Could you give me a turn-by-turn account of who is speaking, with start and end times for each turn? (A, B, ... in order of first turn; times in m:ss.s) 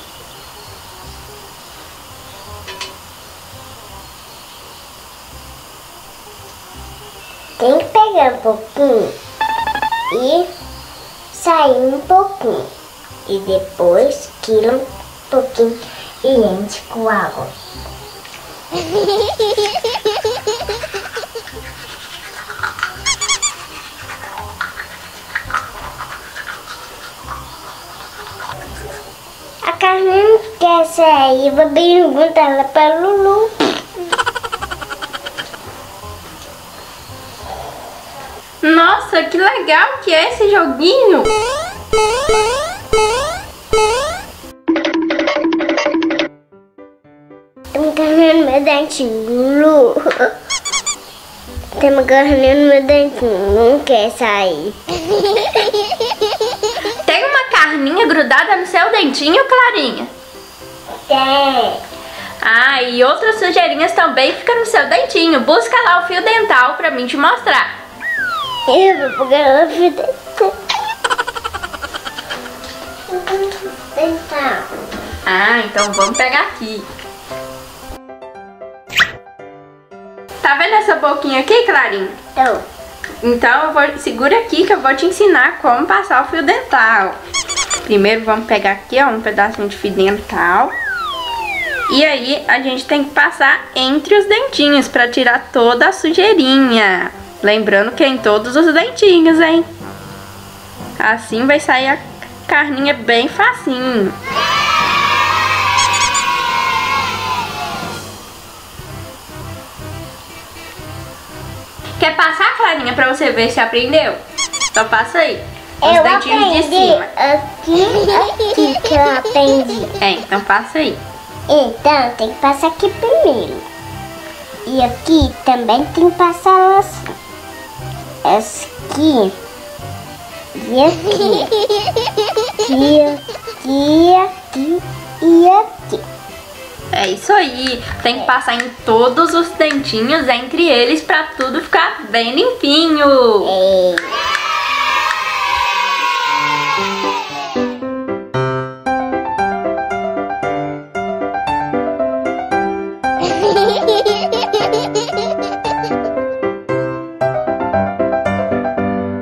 0:07.6-0:09.2 A
0:10.1-0:10.5 A
0:11.3-0:12.7 A
0:13.3-0:17.5 A
0:29.6-0:33.5 A
0:38.6-0:41.3 B
0:47.7-0:50.3 A
0:51.8-0:55.4 A
0:57.0-1:00.1 B
1:01.1-1:01.8 A
1:02.4-1:07.7 B
1:08.7-1:10.5 A
1:13.1-1:14.7 A
1:15.2-1:16.9 B
1:20.4-1:22.2 B
1:22.4-1:22.6 A
1:23.2-1:27.2 B
1:27.8-1:30.8 B
1:31.9-1:39.7 B
1:41.0-1:44.2 B
1:52.0-1:54.2 B
1:54.7-1:57.1 B
1:55.8-2:00.0 A
2:00.0-2:01.0 B
2:01.5-2:03.7 A
2:04.7-2:07.0 A
2:08.2-2:09.4 A
2:10.6-2:11.5 A
2:12.6-2:16.0 A
2:16.9-2:23.5 B
2:23.4-2:24.2 A